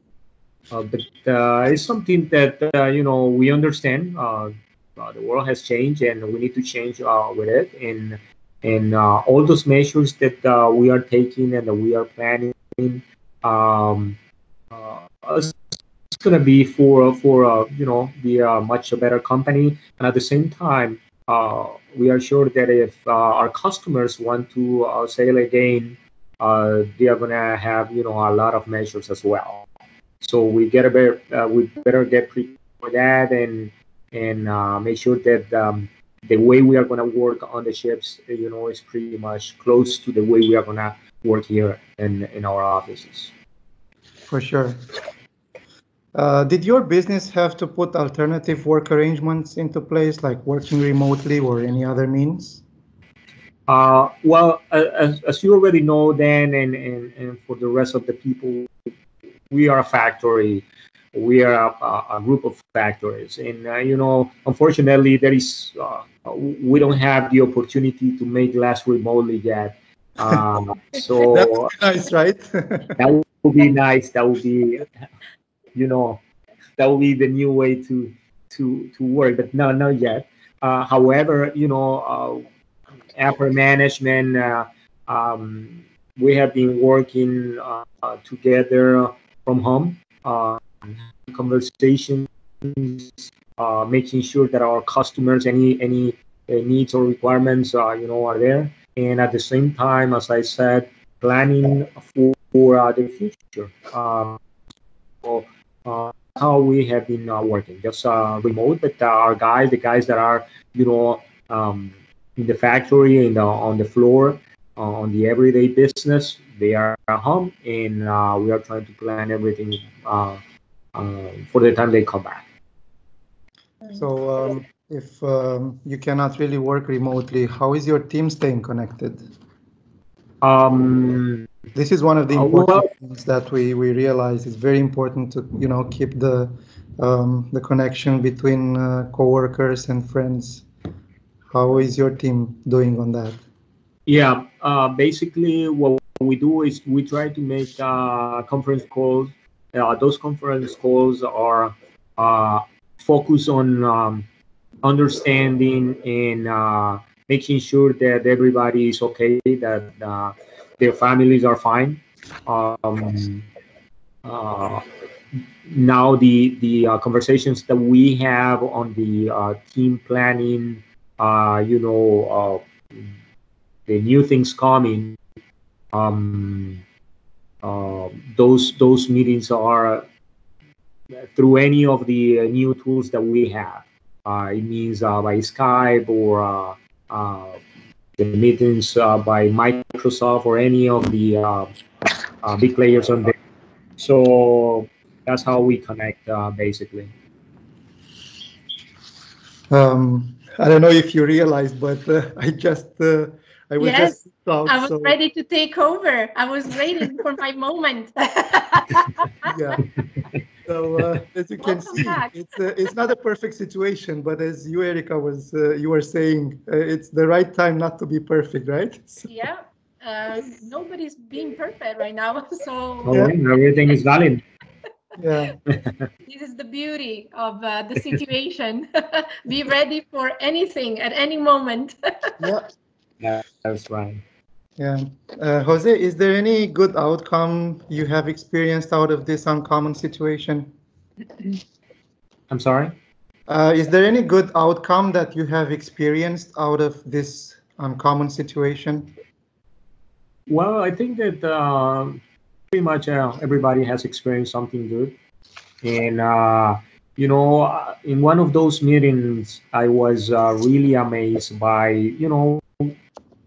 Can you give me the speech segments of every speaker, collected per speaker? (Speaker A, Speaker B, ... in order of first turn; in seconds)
Speaker A: 0.7-14.2, 14.7-15.6, 16.1-29.7, 30.2-43.3, 53.7-58.7, 59.5-71.7, 73.0-74.9, 75.8-76.2, 76.8-82.5, 83.2-104.4, 105.2-120.4, 121.0-122.5, 130.4-131.5, 132.3-132.9, 144.1-154.3, 154.8-163.5, 164.2-164.8, 165.7-173.1, 173.9-175.2, 175.9-176.8, 177.6-180.1, 181.2-187.6, 188.2-191.7, 192.4-193.3, 194.0-197.1, 223.0-224.4, 233.2-234.2, 242.5-242.9, 250.5-255.2, 255.8-263.0
Speaker B: 44.3-44.8, 46.1-52.6, 71.3-73.0, 123.9-129.2, 131.8-140.7, 141.5-143.4, 199.7-205.2, 209.4-209.8, 210.7-219.3, 225.2-225.6, 234.8-240.7, 243.5-249.1
Speaker C: 203.8-209.5, 211.6-212.3, 219.2-223.2, 226.3-231.9